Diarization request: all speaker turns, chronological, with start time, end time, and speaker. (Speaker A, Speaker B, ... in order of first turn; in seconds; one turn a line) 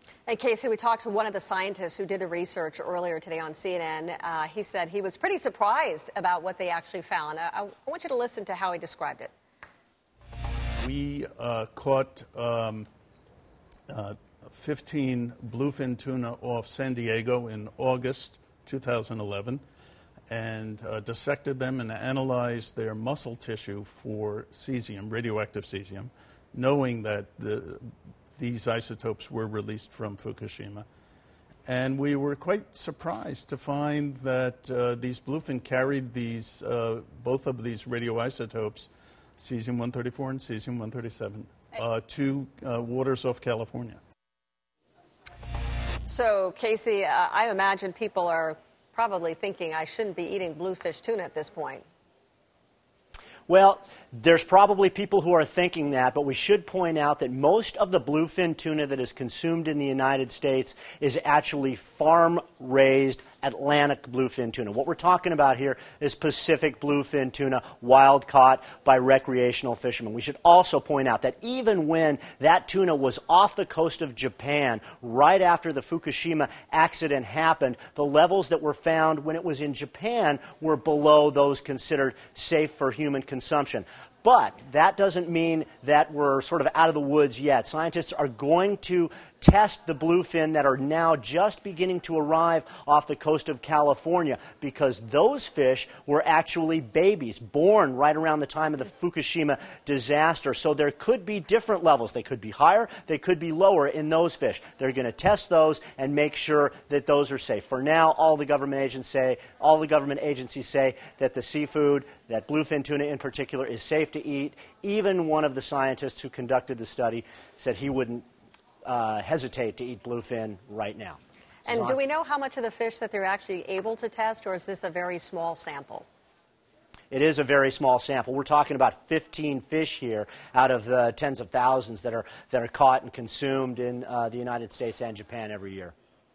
Speaker A: 0.3-9.3
Speaker B: 10.8-12.9
Speaker B: 13.9-19.6
Speaker B: 20.3-30.9
Speaker B: 31.7-44.0
Speaker A: 46.1-51.8
Speaker C: 53.5-118.2
Speaker C: 118.8-122.0
Speaker A: 121.7-126.1
Speaker C: 127.1-135.9